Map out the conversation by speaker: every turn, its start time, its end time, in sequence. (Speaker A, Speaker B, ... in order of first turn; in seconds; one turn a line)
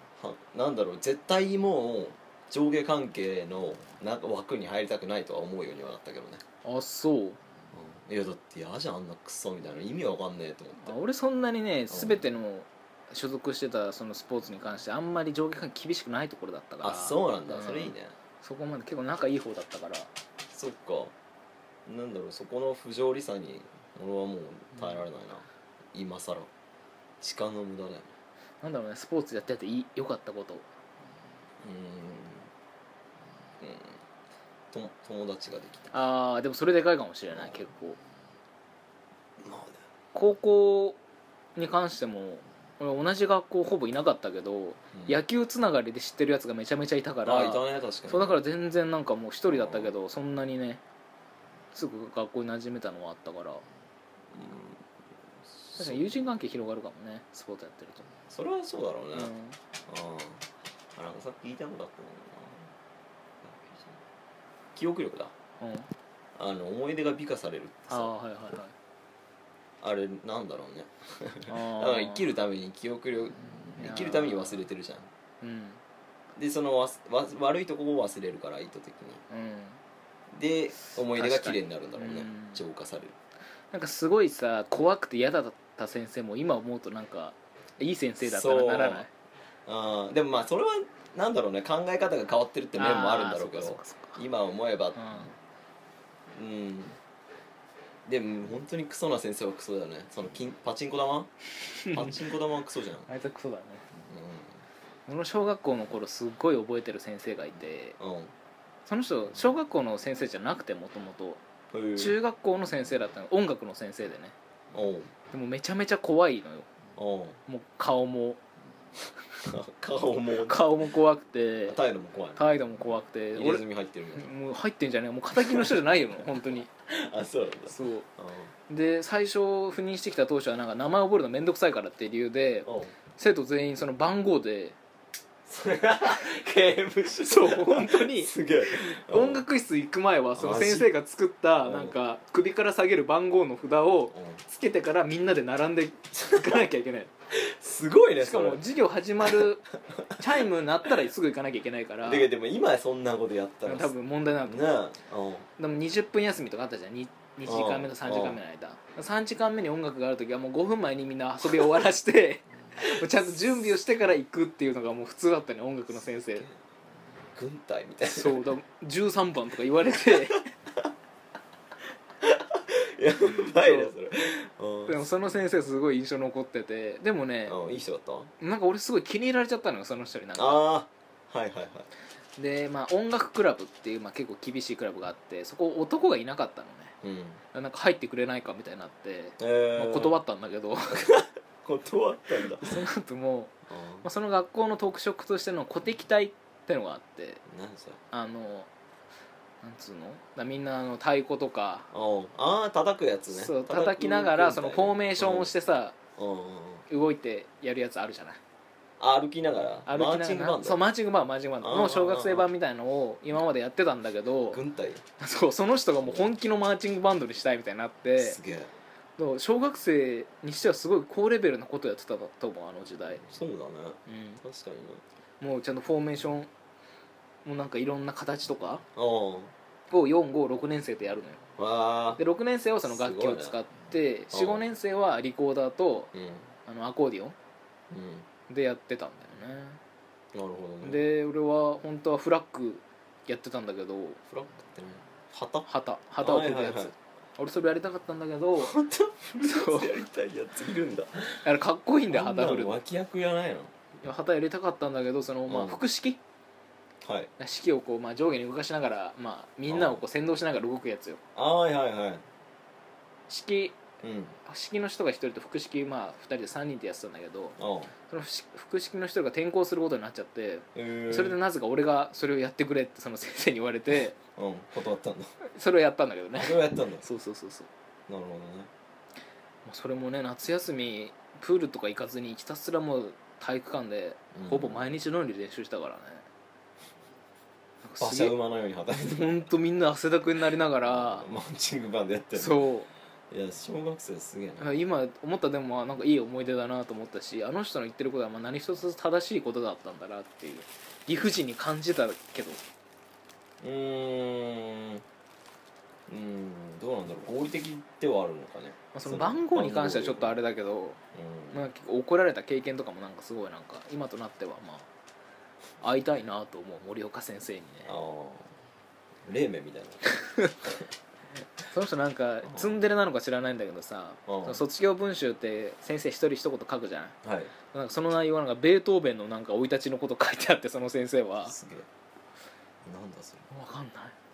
Speaker A: 0.2-6.4
Speaker B: 6.6-7.4
Speaker A: 7.7-10.9
Speaker B: 10.8-20.1
Speaker A: 11.9-12.2
Speaker A: 16.8-18.1
Speaker A: 20.5-21.1
Speaker A: 21.9-26.5
Speaker B: 24.7-25.0
Speaker A: 27.2-28.1
Speaker B: 28.6-30.7
Speaker A: 31.6-32.5
Speaker A: 33.6-34.0
Speaker A: 34.7-35.9
Speaker B: 35.9-38.0
Speaker A: 37.3-37.6
Speaker A: 39.4-39.8
Speaker B: 40.1-41.0
Speaker B: 41.5-50.8
Speaker A: 44.9-45.2
Speaker A: 47.2-48.4
Speaker A: 49.5-49.9
Speaker B: 51.7-53.6
Speaker A: 54.3-54.8
Speaker A: 55.5-56.3
Speaker B: 55.8-58.1
Speaker A: 58.3-59.3
Speaker B: 59.1-59.6
Speaker A: 59.9-62.7
Speaker A: 63.4-64.0
Speaker A: 64.7-65.3
Speaker B: 65.6-65.9
Speaker A: 66.3-68.1
Speaker B: 67.9-68.7
Speaker A: 69.8-75.1
Speaker B: 71.5-72.3
Speaker B: 73.8-74.7
Speaker B: 75.4-75.8
Speaker A: 76.3-79.2
Speaker B: 79.3-79.8
Speaker A: 80.3-83.2
Speaker B: 81.1-82.6
Speaker B: 83.7-89.1
Speaker A: 88.2-89.1
Speaker A: 89.7-95.3
Speaker B: 92.8-94.2
Speaker B: 95.0-95.3
Speaker A: 96.3-97.0
Speaker A: 98.0-101.3
Speaker B: 101.7-102.2
Speaker A: 101.9-103.1
Speaker B: 103.1-103.8
Speaker A: 104.0-104.6
Speaker B: 105.1-108.0
Speaker A: 108.0-108.3
Speaker B: 108.8-111.4
Speaker A: 111.7-112.2
Speaker B: 112.0-114.3
Speaker A: 114.7-115.1
Speaker B: 115.3-116.7
Speaker A: 117.0-117.4
Speaker B: 117.5-118.4
Speaker A: 119.4-120.8
Speaker B: 120.4-121.8
Speaker A: 121.7-122.5
Speaker B: 122.3-126.7
Speaker A: 123.3-124.3
Speaker A: 125.3-128.5
Speaker B: 127.7-128.1
Speaker B: 128.7-134.8
Speaker A: 132.6-132.9
Speaker A: 135.5-139.4
Speaker B: 137.2-147.1
Speaker A: 140.3-140.9
Speaker A: 141.6-141.9
Speaker A: 144.1-144.4
Speaker A: 147.3-148.6
Speaker B: 148.2-149.6
Speaker A: 149.9-150.3
Speaker B: 150.2-152.3
Speaker A: 152.0-153.9
Speaker B: 153.7-154.7
Speaker A: 154.4-155.5
Speaker B: 155.6-166.5
Speaker A: 157.4-158.4
Speaker A: 162.8-163.4
Speaker A: 165.9-166.6
Speaker A: 167.3-168.4
Speaker B: 168.0-170.4
Speaker A: 170.1-170.9
Speaker A: 172.2-175.1
Speaker B: 173.3-173.9
Speaker B: 174.9-177.6
Speaker A: 177.4-178.3
Speaker B: 178.4-180.6
Speaker A: 180.4-181.9
Speaker B: 182.4-186.9
Speaker A: 187.0-187.4
Speaker B: 187.5-191.1
Speaker A: 189.4-190.2
Speaker A: 190.9-192.8
Speaker B: 192.6-197.4
Speaker A: 193.7-194.1
Speaker A: 197.5-198.0
Speaker B: 198.1-198.7
Speaker B: 199.6-201.9
Speaker A: 201.9-205.5
Speaker B: 203.3-205.9
Speaker A: 206.2-206.8
Speaker B: 206.9-208.4
Speaker A: 209.0-210.8
Speaker B: 209.8-214.6
Speaker A: 211.6-212.5
Speaker A: 214.5-215.0
Speaker B: 215.2-218.4
Speaker A: 216.0-216.3
Speaker A: 218.2-218.7
Speaker B: 219.2-223.3
Speaker A: 223.3-225.0
Speaker B: 224.1-224.4
Speaker B: 225.4-226.5
Speaker B: 227.4-228.8
Speaker A: 228.9-229.5
Speaker B: 229.9-231.4
Speaker A: 231.6-232.2
Speaker B: 232.2-236.1
Speaker A: 232.8-233.6
Speaker A: 234.3-234.7
Speaker A: 236.1-236.5
Speaker B: 236.6-237.3
Speaker A: 237.9-238.3
Speaker B: 238.5-239.8
Speaker A: 240.3-241.1
Speaker B: 240.8-244.2
Speaker A: 244.3-246.9
Speaker B: 245.7-248.8
Speaker A: 248.6-251.4
Speaker B: 249.4-249.9
Speaker B: 251.4-252.8
Speaker A: 252.1-253.7
Speaker B: 254.0-256.2
Speaker A: 255.5-255.8
Speaker A: 257.0-257.3
Speaker B: 257.4-261.2
Speaker A: 259.7-260.0
Speaker A: 261.4-262.2
Speaker B: 263.3-263.8
Speaker A: 264.0-264.4
Speaker B: 264.4-267.6
Speaker A: 267.6-267.9
Speaker B: 268.1-274.2
Speaker A: 270.7-271.4
Speaker A: 274.4-275.3
Speaker B: 275.4-277.7
Speaker A: 276.3-277.0
Speaker A: 278.1-278.7
Speaker B: 279.6-286.2
Speaker A: 284.3-284.9
Speaker B: 287.8-288.3
Speaker A: 288.0-289.4
Speaker B: 288.9-291.3
Speaker A: 290.8-292.6
Speaker B: 292.3-292.9
Speaker A: 293.3-294.8
Speaker B: 294.6-302.6
Speaker A: 303.6-305.0
Speaker A: 306.1-310.4
Speaker B: 308.9-311.0
Speaker A: 311.1-311.7
Speaker B: 311.5-314.9
Speaker B: 315.8-317.9
Speaker A: 317.9-318.6
Speaker A: 319.2-320.1
Speaker B: 320.1-320.5
Speaker B: 321.6-331.5
Speaker A: 322.4-322.8
Speaker A: 324.3-324.6
Speaker A: 327.2-327.5
Speaker A: 331.4-331.9
Speaker A: 332.8-333.5
Speaker B: 333.5-334.1